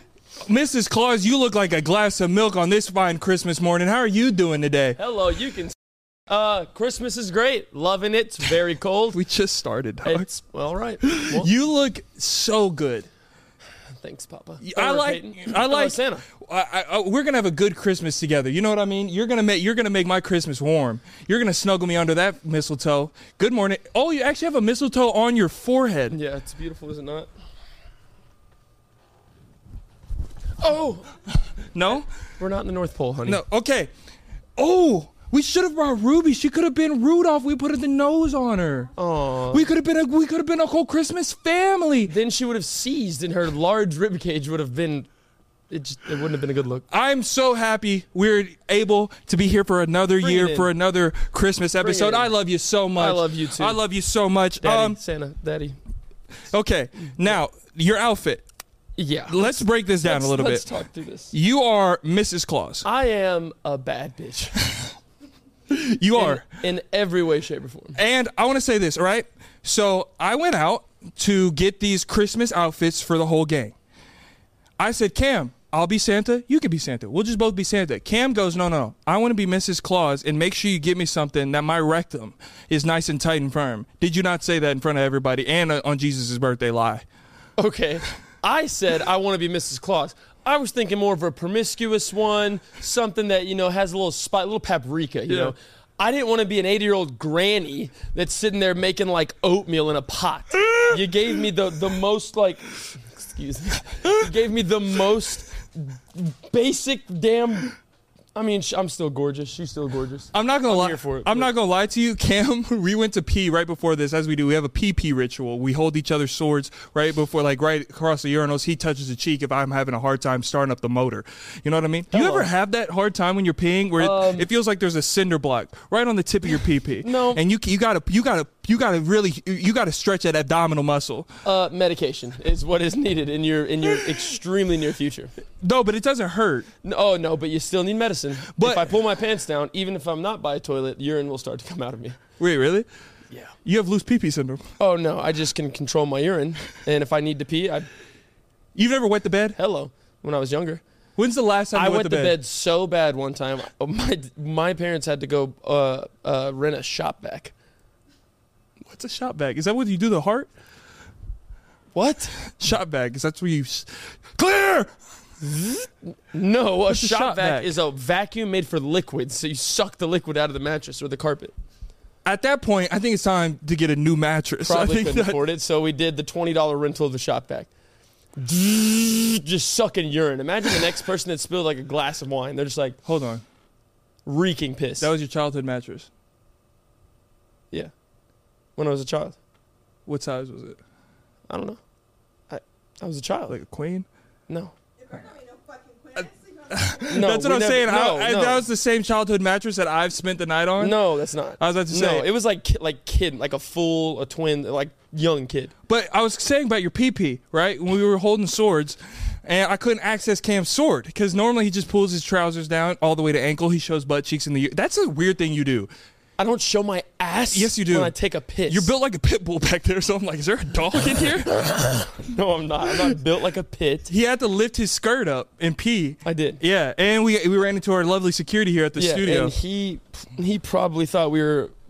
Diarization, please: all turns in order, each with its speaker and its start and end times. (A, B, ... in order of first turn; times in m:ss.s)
0:00.4-0:05.0 A
0:05.0-0:05.8 B
0:06.3-0:09.2 B
0:09.1-0:10.2 A
0:10.0-0:11.5 B
0:11.0-0:13.1 A
0:14.0-0:16.2 B
0:14.6-0:26.2 A
0:26.1-0:27.3 B
0:30.6-0:31.1 B
0:31.7-0:32.1 A
0:32.4-0:33.4 B
0:33.2-0:33.9 A
0:34.6-0:38.9 A
0:39.0-0:39.6 B
0:39.5-0:42.1 A
0:42.1-0:45.1 B
0:45.7-0:46.8 B
0:46.9-0:55.0 A
0:50.2-0:50.7 B
0:51.8-0:52.3 B
0:53.0-0:53.8 B
0:54.6-0:55.8 B
0:56.5-0:58.4 A
0:59.0-1:01.3 B
0:59.3-1:00.7 A
1:01.3-1:02.9 A
1:02.8-1:04.7 B
1:05.7-1:06.5 A
1:06.2-1:08.0 B
1:08.0-1:13.7 A
1:14.8-1:27.0 A
1:27.6-1:47.8 B
1:35.3-1:35.5 A
1:40.6-1:41.3 A
1:48.3-1:51.5 B
1:50.3-2:11.3 A
2:02.1-2:02.5 B
2:04.0-2:04.5 B
2:07.0-2:07.4 B
2:11.4-2:15.3 B
2:15.6-2:16.7 A
2:16.8-2:22.2 B
2:18.6-2:18.9 A
2:22.4-2:22.9 A
2:23.6-2:24.6 A
2:24.8-2:27.9 B
2:28.8-2:29.6 A
2:29.6-2:30.8 B
2:31.2-2:32.4 A
2:31.7-2:37.5 B
2:38.9-2:40.5 A
2:41.9-2:42.4 B
2:42.6-2:44.9 A
2:45.4-2:51.5 B
2:46.9-2:47.8 A
2:52.2-2:55.5 A
2:54.6-2:57.7 B
2:58.4-3:03.0 B
3:03.0-3:03.4 A
3:04.2-3:05.1 B
3:05.0-3:06.1 A
3:08.8-3:09.4 B
3:10.0-3:10.8 A
3:11.5-3:11.8 B
3:12.5-3:13.5 B
3:13.5-3:14.0 A
3:14.5-3:14.7 B
3:15.0-3:17.0 C
3:16.7-3:22.3 A
3:17.1-3:18.6 B
3:20.8-3:25.7 B
3:25.9-3:35.9 A
3:36.4-3:38.9 B
3:37.5-3:38.1 A
3:38.7-3:41.6 A
3:41.6-3:44.1 B
3:44.1-3:49.5 A
3:46.2-3:46.6 B
3:49.0-3:51.7 B